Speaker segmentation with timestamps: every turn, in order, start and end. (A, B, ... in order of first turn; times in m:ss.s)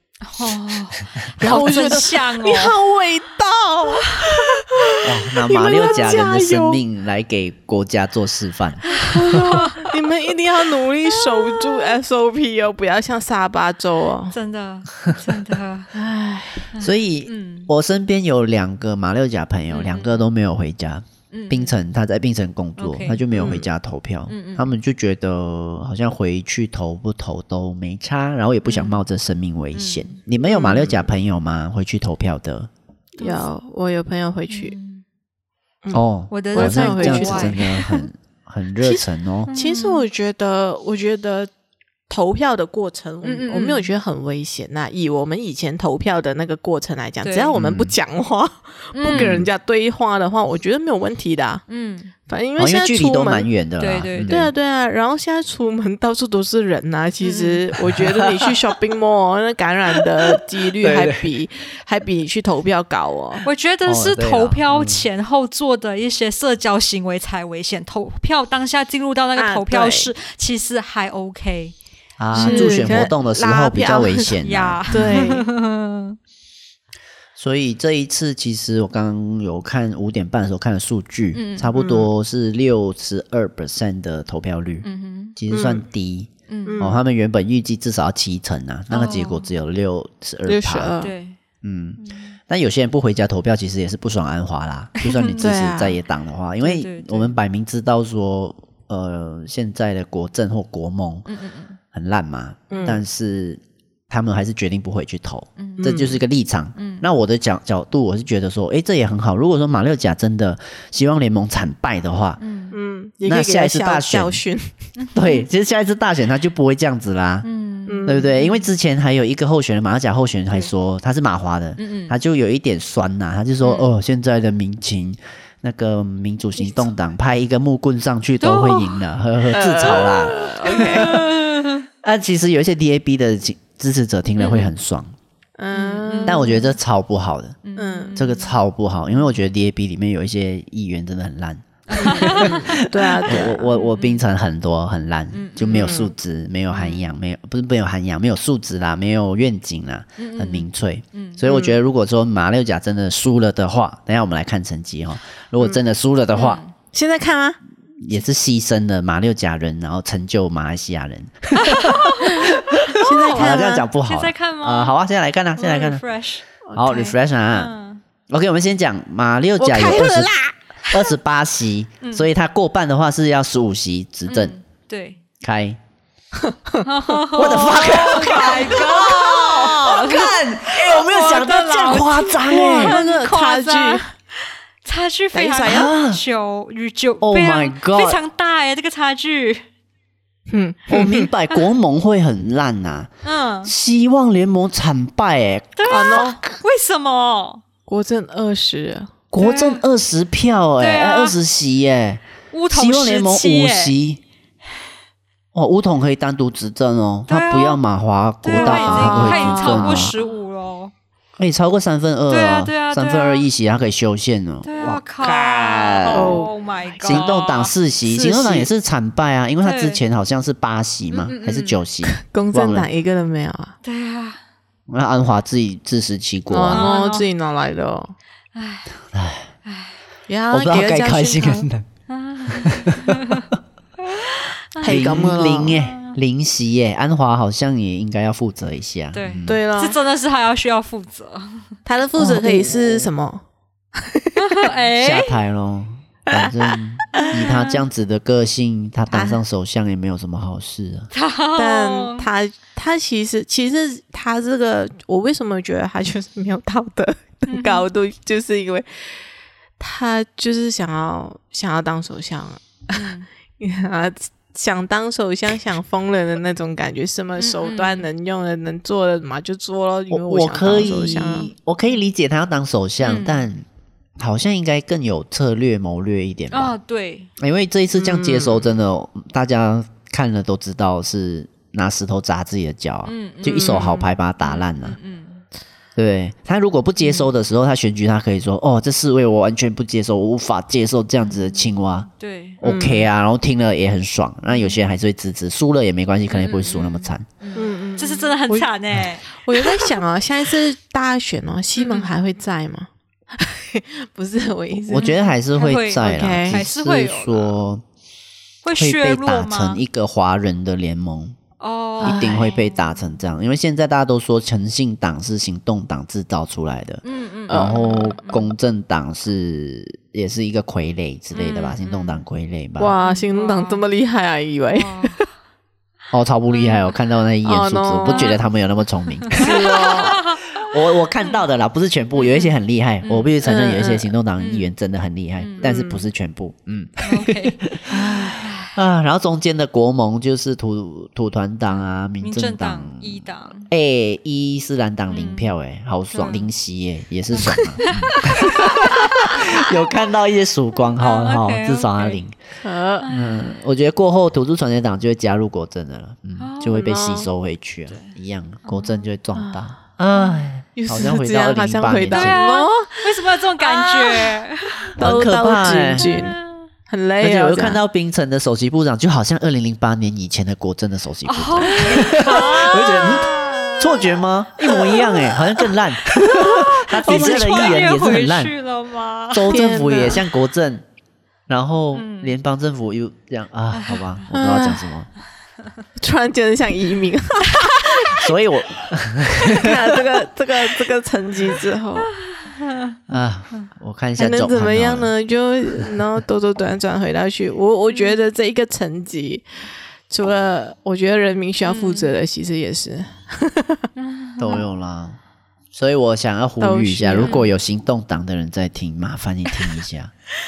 0:00.2-0:02.8 A
0:01.4-0:06.8 B
0:05.0-0:09.4 C
0:08.9-0:09.9 A
0:09.1-0:14.3 B
0:14.3-0:15.9 A
0:15.9-0:16.7 B
0:16.8-0:17.7 A
0:16.8-0:32.7 C
0:19.7-0:20.2 A
0:21.3-0:21.8 A
0:22.8-0:23.2 A
0:23.3-0:23.7 B
0:24.3-0:24.7 A
0:28.6-0:29.0 A
0:29.7-0:30.2 A
0:30.5-0:31.0 B
0:33.2-0:34.8 B
0:33.2-0:33.4 A
0:34.5-0:35.0 A
0:35.8-0:37.8 B
0:35.9-0:39.5 C
0:36.3-0:37.9 A
0:38.8-0:41.5 B
0:39.5-0:40.0 A
0:42.1-0:51.6 B
0:43.2-0:43.9 A
0:47.2-0:47.5 A
0:47.6-0:47.9 C
0:48.9-0:49.4 A
0:49.1-0:49.5 C
0:51.7-0:52.1 A
0:52.3-0:53.5 B
0:52.6-0:54.5 C
0:53.8-0:54.5 A
0:54.3-1:03.4 B
0:57.2-0:57.6 A
0:57.8-0:58.4 C
1:00.0-1:01.3 C
1:03.4-1:11.8 A
1:03.8-1:05.0 C
1:09.4-1:10.1 B
1:12.2-1:15.2 C
1:12.3-1:13.0 A
1:12.3-1:14.3 B
1:14.4-1:16.2 A
1:14.9-1:15.4 B
1:17.4-1:31.0 C
1:21.3-1:21.7 A
1:21.8-1:22.1 B
1:24.8-1:25.3 A
1:25.5-1:25.9 B
1:26.5-1:26.8 A
1:26.6-1:27.0 B
1:28.9-1:29.5 A
1:30.4-1:31.1 B
1:31.0-1:31.4 A
1:31.6-1:41.3 C
1:32.0-1:32.3 A
1:35.0-1:35.4 A
1:35.4-1:36.0 B
1:36.6-1:37.3 A
1:41.2-1:41.8 A
1:41.9-1:52.4 C
1:42.7-1:43.0 B
1:45.6-1:45.9 A
1:45.8-1:46.2 B
1:46.8-1:47.0 A
1:52.4-1:52.8 A
1:52.7-1:54.7 B
1:53.2-1:54.4 C
1:55.0-1:55.4 A
1:55.1-1:57.4 C
1:57.4-1:58.7 A
1:57.9-1:58.3 B
1:58.1-2:15.1 C
2:01.8-2:02.2 A
2:03.6-2:03.9 A
2:08.4-2:09.0 A
2:09.5-2:11.2 B
2:10.7-2:11.8 A
2:14.4-2:14.7 A
2:15.6-2:16.6 B
2:15.7-2:16.6 A
2:16.2-2:17.6 C
2:17.6-2:18.5 A
2:17.8-2:18.3 B
2:18.1-2:36.6 C
2:21.9-2:22.8 A
2:22.0-2:23.7 B
2:23.4-2:24.2 A
2:25.3-2:26.0 A
2:25.7-2:26.1 B
2:26.7-2:27.1 A
2:30.2-2:31.4 A
2:31.4-2:31.8 B
2:36.3-2:36.7 A
2:36.9-2:37.6 B
2:38.0-2:46.0 C
2:41.6-2:44.9 A
2:43.0-2:43.9 B
2:45.6-2:46.4 A
2:46.7-2:47.2 B
2:46.8-2:47.7 C
2:47.5-2:48.0 A
2:48.3-2:50.3 C
2:49.6-2:50.5 B
2:50.9-2:54.5 C
2:52.0-2:52.3 A
2:54.3-2:55.2 A
2:55.4-2:55.8 C
2:56.4-2:56.8 B
2:56.8-3:04.0 A
2:57.3-3:03.0 C
2:58.1-2:58.6 B
3:02.5-3:04.1 B
3:04.8-3:09.6 A
3:05.3-3:05.9 B
3:05.6-3:06.2 C
3:07.2-3:08.2 C
3:10.5-3:11.3 B
3:10.9-3:13.1 C
3:13.2-3:13.7 A
3:13.6-3:16.4 C
3:15.8-3:17.6 A
3:15.9-3:16.4 B
3:17.9-3:19.1 B
3:19.3-3:24.2 C
3:19.4-3:19.8 A
3:20.8-3:21.4 A
3:22.5-3:23.9 A
3:25.5-3:30.1 C
3:27.3-3:27.8 A
3:28.4-3:30.9 A
3:28.5-3:30.1 B
3:31.4-3:36.4 C
3:32.3-3:33.5 A
3:34.6-3:37.7 A
3:36.1-3:36.5 B
3:37.0-3:42.9 C
3:38.1-3:38.7 B
3:39.6-3:40.0 A
3:41.1-3:43.8 B
3:43.8-3:44.4 A
3:44.9-3:46.9 C
3:46.5-3:48.1 B
3:46.7-3:47.2 A
3:48.5-3:48.9 A
3:49.1-3:49.5 C
3:49.6-3:50.0 A
3:50.3-3:51.7 B
3:50.5-3:51.9 C
3:52.1-3:53.5 A
3:52.5-3:53.4 C
3:54.0-3:56.1 A
3:54.8-3:55.8 B
3:54.8-3:59.6 C
3:59.1-4:01.7 A
3:59.5-4:00.0 B
4:01.9-4:03.4 B
4:02.2-4:03.0 C
4:03.9-4:04.6 B
4:04.4-4:05.4 A
4:05.0-4:11.1 C
4:06.3-4:06.6 B
4:07.1-4:07.8 A
4:09.1-4:09.4 B
4:11.1-4:12.3 A
4:11.6-4:19.2 B
4:17.5-4:17.8 A
4:19.8-4:31.5 B
4:22.9-4:23.3 A
4:27.4-4:28.1 A
4:30.1-4:33.6 C
4:33.0-4:33.4 A
4:34.2-4:36.7 C
4:36.5-4:37.3 A
4:37.4-4:45.0 C
4:38.1-4:38.6 B
4:43.0-4:45.4 A
4:43.5-4:44.1 B
4:46.0-4:52.1 C
4:52.2-4:52.6 A
4:52.6-4:57.3 C
4:52.6-4:53.1 B
4:56.3-4:59.9 A
4:57.5-4:58.7 B
4:59.2-5:05.2 B
5:01.8-5:02.1 A
5:04.8-5:07.8 C
5:05.0-5:07.6 A
5:06.0-5:06.6 B
5:08.6-5:09.8 A
5:08.8-5:11.4 C
5:11.6-5:12.6 A
5:12.0-5:12.6 B
5:12.0-5:22.9 C
5:17.0-5:18.5 A
5:17.5-5:18.2 B
5:21.3-5:22.2 A
5:22.8-5:25.1 B
5:23.0-5:23.8 A
5:24.7-5:25.2 A
5:26.1-5:29.5 C
5:26.5-5:26.9 A
5:27.4-5:28.4 B
5:28.0-5:28.4 A
5:29.3-5:31.4 A
5:29.4-5:30.2 B
5:30.6-5:52.4 C
5:32.2-5:32.5 A
5:33.0-5:33.4 A
5:33.4-5:34.1 B
5:34.4-5:34.7 A
5:35.4-5:35.7 A
5:35.6-5:36.0 B
5:37.0-5:38.7 A
5:41.7-5:43.7 A
5:45.1-5:45.5 A
5:46.1-5:46.5 A
5:47.3-5:49.6 A
5:51.0-5:52.2 A
5:52.6-5:53.1 B
5:53.0-5:53.5 A
5:53.1-6:02.5 C
5:56.4-5:56.9 A
5:56.7-5:57.3 B
5:57.9-5:59.1 A
5:59.4-5:59.6 B
6:00.1-6:00.4 A
6:00.8-6:07.8 B
6:02.1-6:04.9 A
6:05.0-6:06.1 C
6:05.9-6:06.6 A
6:07.2-6:18.5 C
6:11.2-6:15.7 A
6:11.7-6:12.1 B
6:16.3-6:19.6 A
6:16.9-6:17.9 B
6:19.3-6:20.9 C
6:19.5-6:20.2 B
6:21.5-6:25.1 C
6:21.9-6:22.4 A
6:23.8-6:24.2 A
6:24.3-6:24.9 B
6:26.0-6:28.2 B
6:28.1-6:30.0 C
6:29.4-6:32.1 B
6:32.2-6:33.0 A
6:33.1-6:35.1 C
6:34.2-6:39.4 B
6:35.7-6:36.0 C
6:37.9-6:38.2 A
6:40.1-6:43.9 B
6:41.6-6:42.1 A
6:44.0-6:44.6 A
6:44.4-6:45.2 C
6:45.7-6:50.1 C
6:46.6-6:47.4 B
6:47.2-6:47.5 A